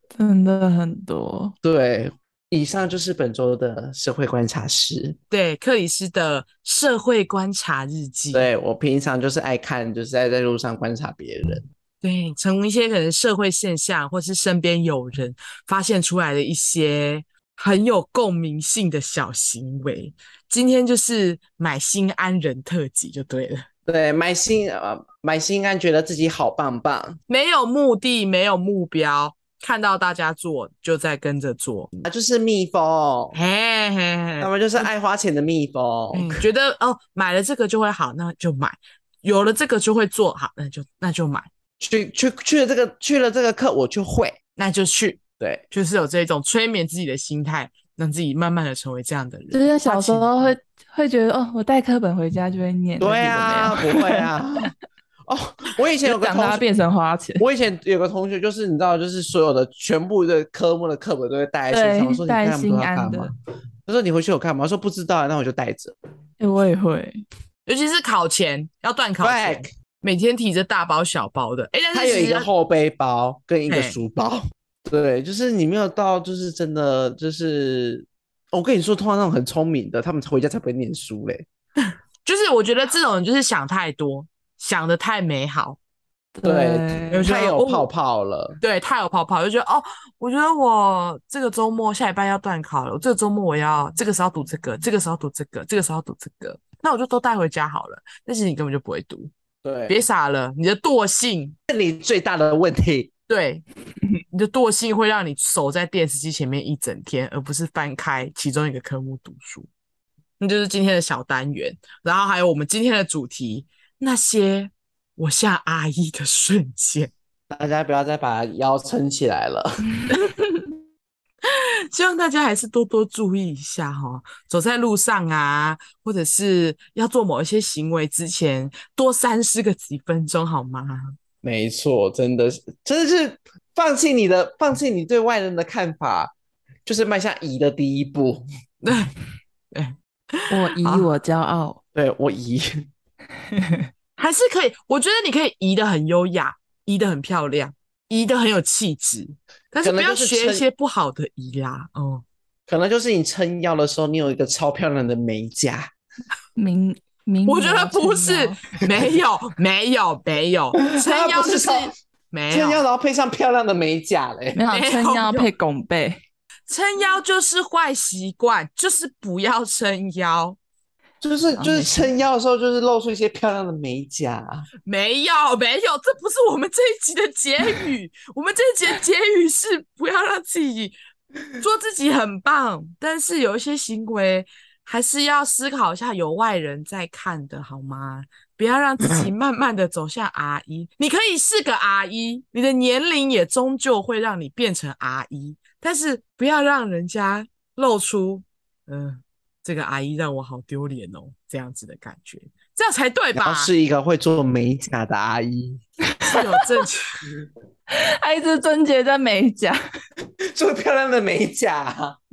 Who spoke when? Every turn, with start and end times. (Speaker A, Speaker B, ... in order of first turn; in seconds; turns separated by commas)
Speaker A: 0.2-1.5, Speaker B: 1.6-5.2, Speaker C: 5.3-8.4, Speaker B: 8.3-11.7, Speaker C: 12.0-23.6, Speaker B: 23.9-27.2, Speaker C: 27.3-31.9, Speaker B: 32.0-33.4, Speaker C: 33.3-34.9, Speaker B: 34.4-36.4, Speaker C: 36.1-41.5, Speaker B: 41.8-44.4, Speaker C: 44.5-50.3, Speaker A: 49.5-54.3, Speaker B: 53.0-54.7, Speaker B: 55.3-56.6, Speaker A: 56.0-57.4, Speaker B: 57.4-63.3, Speaker A: 61.7-63.3, Speaker B: 63.9-65.9, Speaker A: 66.4-67.2, Speaker C: 67.7-72.5, Speaker B: 69.2-69.7, Speaker B: 71.9-81.5, Speaker C: 73.7-74.0, Speaker C: 81.8-85.8, Speaker A: 86.3-87.2, Speaker B: 86.4-88.6, Speaker C: 87.1-87.8, Speaker C: 88.6-99.3, Speaker B: 99.6-100.0, Speaker C: 99.9-101.5, Speaker B: 101.7-103.1, Speaker C: 103.3-103.6, Speaker C: 104.3-109.7, Speaker C: 110.4-117.1, Speaker B: 117.5-119.9, Speaker C: 121.4-131.2, Speaker B: 131.4-136.3, Speaker B: 136.8-138.4, Speaker C: 138.8-139.1, Speaker C: 139.7-141.1, Speaker A: 140.5-141.8, Speaker B: 141.9-142.7, Speaker A: 143.6-143.8, Speaker C: 144.2-152.2, Speaker B: 149.8-150.6, Speaker B: 152.7-155.9, Speaker A: 156.6-158.6, Speaker C: 157.4-162.8, Speaker B: 160.8-161.9, Speaker B: 162.5-164.6, Speaker A: 164.6-166.2, Speaker C: 164.7-165.5, Speaker C: 166.7-170.6, Speaker B: 171.2-174.7, Speaker A: 171.6-172.1, Speaker C: 174.8-180.9, Speaker C: 181.6-203.7, Speaker B: 203.3-205.8, Speaker A: 206.1-206.6, Speaker C: 206.2-207.2, Speaker A: 207.9-209.8, Speaker B: 210.5-212.2